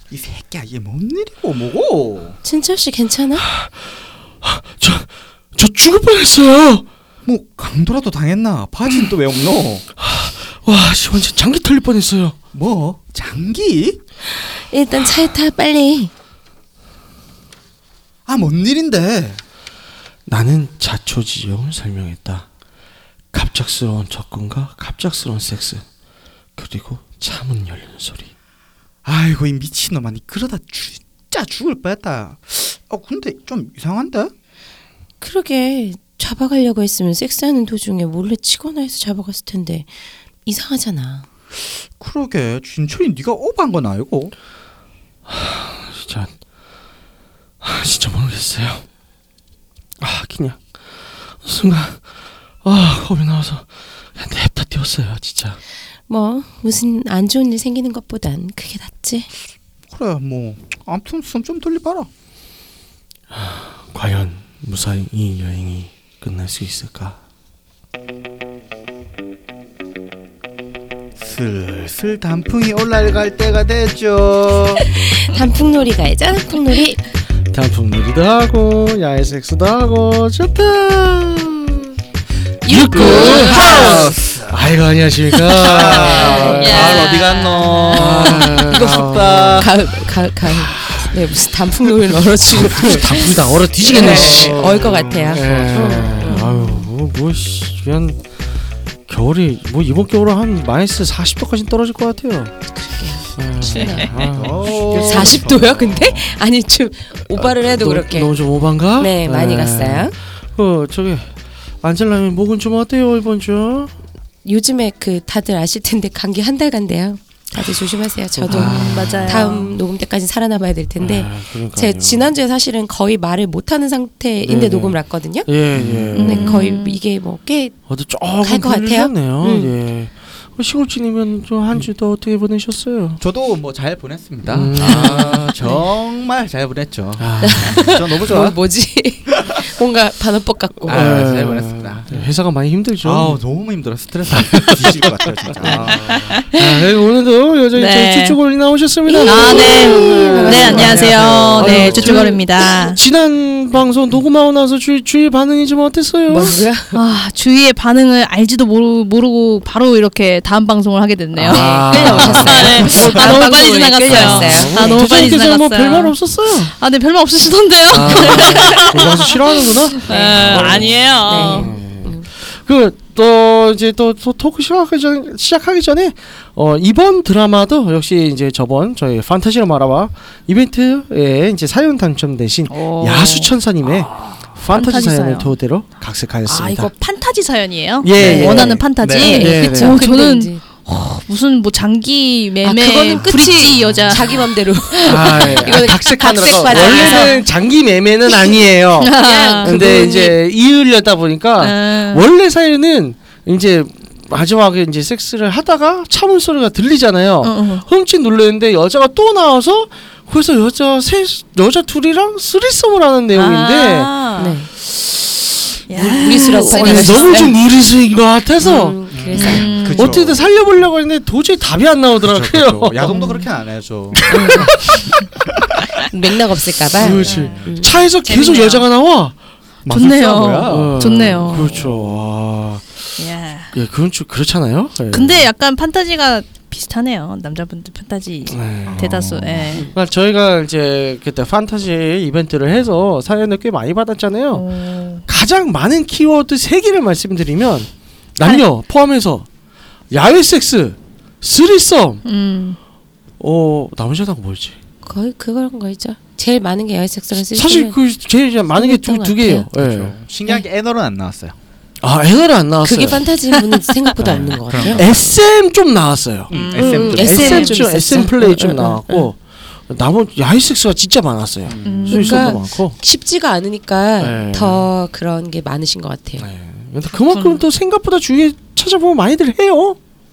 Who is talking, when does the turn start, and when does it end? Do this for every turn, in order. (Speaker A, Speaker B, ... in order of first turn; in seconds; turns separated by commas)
Speaker A: 0.1-2.4, Speaker B: 2.4-3.5, Speaker C: 3.5-3.9, Speaker C: 4.4-6.8, Speaker A: 7.2-9.8, Speaker C: 10.0-12.4, Speaker A: 12.5-14.0, Speaker B: 14.6-16.1, Speaker A: 18.2-19.4, Speaker C: 20.3-22.5, Speaker C: 23.3-25.9, Speaker C: 26.6-28.3, Speaker A: 29.1-34.3, Speaker B: 35.2-39.9, Speaker B: 40.4-41.2, Speaker A: 42.0-44.3, Speaker C: 45.3-46.3, Speaker C: 47.6-48.9, Speaker C: 50.0-52.0, Speaker C: 52.6-55.6, Speaker B: 56.1-59.3, Speaker A: 59.9-62.1, Speaker C: 63.3-67.2, Speaker A: 71.2-74.9, Speaker B: 75.0-77.0, Speaker C: 77.5-81.9, Speaker C: 82.6-87.1, Speaker B: 82.6-84.0, Speaker A: 83.0-84.7, Speaker A: 85.4-89.7, Speaker D: 85.9-88.4, Speaker B: 86.1-86.9, Speaker C: 87.9-89.7, Speaker B: 89.5-96.9, Speaker C: 92.5-98.2, Speaker A: 93.9-96.1, Speaker C: 99.1-102.5, Speaker B: 102.8-104.1, Speaker C: 103.4-106.1, Speaker A: 103.9-106.2, Speaker B: 104.9-108.3, Speaker C: 107.4-113.9, Speaker B: 109.0-110.1, Speaker B: 114.4-125.5, Speaker C: 118.4-119.6, Speaker D: 118.5-119.8, Speaker C: 121.0-122.3, Speaker C: 124.4-126.7, Speaker A: 125.8-126.1, Speaker B: 126.1-127.8, Speaker D: 126.2-127.0, Speaker C: 127.9-133.2, Speaker B: 128.4-129.7, Speaker A: 133.2-138.6, Speaker C: 134.5-135.5, Speaker B: 134.8-135.7, Speaker C: 137.2-137.9, Speaker B: 137.4-141.1, Speaker A: 140.8-142.3, Speaker C: 140.9-143.4, Speaker A: 143.0-146.5, Speaker C: 144.4-144.9, Speaker C: 145.6-146.0, Speaker D: 146.0-146.6, Speaker C: 146.5-156.6, Speaker D: 147.7-148.4, Speaker B: 149.1-151.3, Speaker D: 149.2-153.0, Speaker A: 150.6-152.3, Speaker B: 156.3-157.0, Speaker D: 156.9-171.7, Speaker C: 161.3-166.7, Speaker B: 161.5-165.1, Speaker C: 167.9-186.9, Speaker B: 168.0-169.2, Speaker B: 170.1-172.3, Speaker D: 182.7-183.5, Speaker D: 184.7-185.5, Speaker D: 186.5-197.5, Speaker C: 188.0-190.0, Speaker A: 188.1-189.5, Speaker B: 188.2-188.6, Speaker B: 189.1-190.6, Speaker B: 192.6-197.4, Speaker A: 193.1-194.4, Speaker C: 195.1-214.1, Speaker D: 199.0-200.3, Speaker B: 199.2-200.3, Speaker D: 201.6-202.3, Speaker D: 207.4-207.9, Speaker D: 213.3-214.6, Speaker B: 214.4-214.7, Speaker D: 215.9-217.5, Speaker C: 215.9-223.2, Speaker B: 216.0-217.5, Speaker B: 218.6-219.8, Speaker A: 219.1-220.5, Speaker D: 219.3-220.3, Speaker A: 222.2-224.9, Speaker D: 223.1-223.4, Speaker C: 224.1-224.9, Speaker B: 224.3-224.7, Speaker B: 226.0-227.9, Speaker C: 226.9-229.4, Speaker A: 227.0-227.8, Speaker D: 227.1-228.9, Speaker A: 229.8-232.0, Speaker D: 229.9-231.8, Speaker C: 230.6-233.1, Speaker D: 233.2-233.7, Speaker C: 233.7-235.5, Speaker D: 235.1-239.9, Speaker C: 238.5-244.7, Speaker A: 238.9-239.2, Speaker D: 244.5-245.2, Speaker C: 245.2-249.5, Speaker C: 250.1-252.2, Speaker D: 252.2-252.8, Speaker C: 253.4-254.8, Speaker B: 255.0-258.0, Speaker C: 257.5-260.1, Speaker B: 258.8-259.7, Speaker A: 259.8-261.6, Speaker C: 262.0-273.0, Speaker B: 262.8-265.3, Speaker A: 264.2-265.2, Speaker A: 266.5-267.7, Speaker D: 266.5-267.7, Speaker B: 266.8-269.3, Speaker A: 271.6-272.2, Speaker D: 271.8-272.5, Speaker B: 272.1-276.5, Speaker C: 274.2-274.9, Speaker C: 276.4-280.0, Speaker D: 277.3-277.6